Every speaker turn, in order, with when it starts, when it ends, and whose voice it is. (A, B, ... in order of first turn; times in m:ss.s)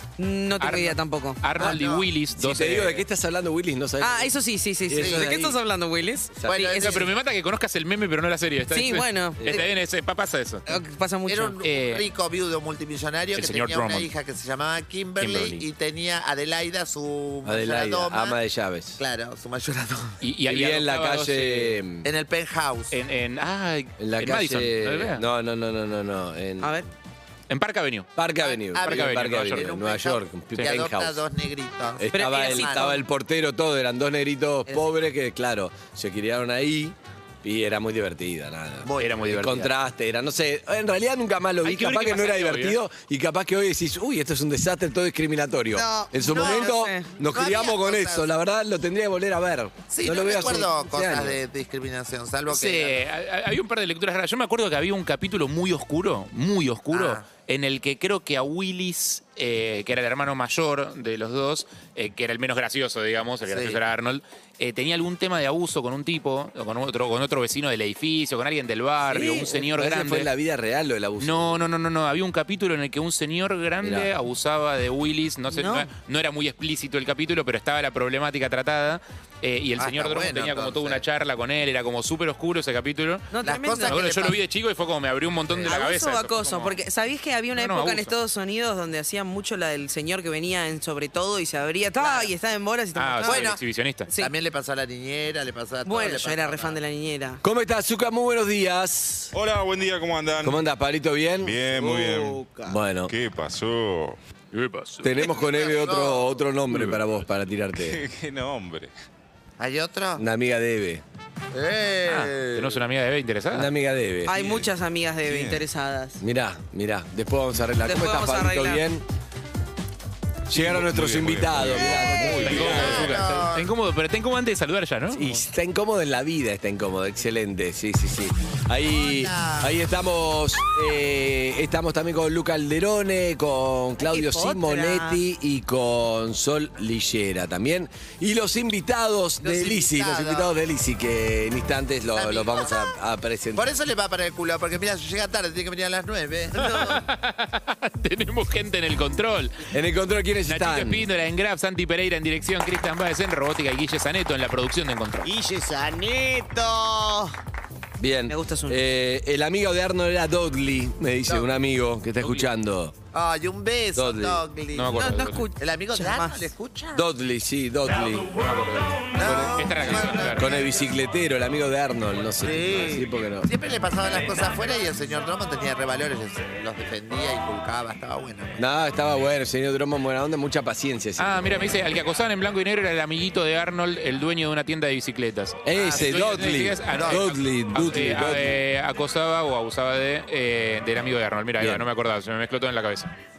0:00.2-0:01.4 A
0:00.6-0:03.0 B
0:01.6-0:02.0 C
0:01.6-0:04.3 D
0:04.0-0:07.1 A
0:04.9-0:05.6 D
0:05.0-0:05.3 C
0:06.4-0:06.7 D
0:06.5-0:07.1 C
0:06.8-0:10.6 B
0:08.7-0:09.6 A
0:09.4-0:09.7 D
0:10.7-0:11.6 A
0:11.3-0:18.4 C
0:11.6-0:12.0 B
0:13.3-0:14.1 B
0:15.2-0:15.6 B
0:17.4-0:19.0 D
0:19.0-0:20.2 C
0:20.2-0:21.8 B
0:20.5-0:22.1 D
0:22.0-0:23.0 C
0:22.9-0:25.2 B
0:24.0-0:26.8 D
0:26.6-0:26.9 A
0:27.5-0:28.1 B
0:28.2-0:31.2 D
0:28.4-0:33.0 C
0:28.8-0:29.7 B
0:32.0-0:51.4 D
0:32.1-0:33.0 A
0:38.8-0:39.6 C
0:39.0-0:39.7 B
0:41.6-0:42.8 B
0:45.7-0:47.2 A
0:46.3-0:48.3 C
0:49.9-0:53.0 C
0:52.5-1:10.3 B
0:56.9-0:57.2 C
1:03.5-1:03.8 C
1:09.0-1:11.6 D
1:11.2-1:26.8 B
1:13.8-1:14.1 D
1:15.5-1:15.9 A
1:19.8-1:21.0 C
1:23.3-1:24.1 A
1:23.4-1:24.4 C
1:25.6-1:34.3 A
1:27.5-1:28.1 B
1:32.0-1:32.3 C
1:33.0-1:34.1 B
1:33.2-1:33.6 C
1:34.2-1:36.8 C
1:35.8-1:37.4 A
1:37.4-1:39.3 D
1:39.3-1:40.6 E
1:40.4-1:41.6 D
1:41.4-1:42.4 E
1:41.7-1:42.8 C
1:42.7-1:43.1 D
1:43.1-1:44.2 E
1:44.5-1:45.3 B
1:45.0-1:48.0 D
1:45.4-1:46.3 C
1:46.7-1:47.0 E
1:47.8-1:48.9 E
1:49.6-1:50.2 C
1:50.2-1:51.0 D
1:51.5-1:52.8 C
1:52.1-1:53.7 B
1:53.5-1:54.4 D
1:54.3-1:56.2 A
1:54.3-1:54.7 E
1:55.2-1:55.6 E
1:56.2-1:59.0 D
1:57.8-1:58.8 A
2:00.5-2:03.1 D
2:00.5-2:03.1 E
2:02.0-2:05.4 B
2:02.4-2:03.7 C
2:05.1-2:23.7 D
2:08.8-2:09.8 C
2:14.0-2:15.2 A
2:19.4-2:20.5 C
2:22.1-2:22.9 C
2:23.6-2:26.9 C
2:26.5-2:27.0 A
2:26.6-2:29.7 B
2:29.7-2:31.0 D
2:30.5-2:35.3 B
2:35.7-2:36.1 C
2:38.0-2:42.9 D
2:38.3-2:38.8 A
2:42.2-2:42.5 B
2:43.1-2:47.1 C
2:44.0-2:44.4 D
2:44.7-2:45.5 B
2:44.9-2:46.5 A
2:46.9-2:48.3 D
2:48.3-2:50.5 B
2:49.2-2:50.8 C
2:50.4-2:53.5 D
2:52.4-2:58.6 C
2:58.6-3:01.8 D
3:01.2-3:13.1 B
3:05.6-3:08.5 D
3:05.8-3:07.4 C
3:11.6-3:11.9 D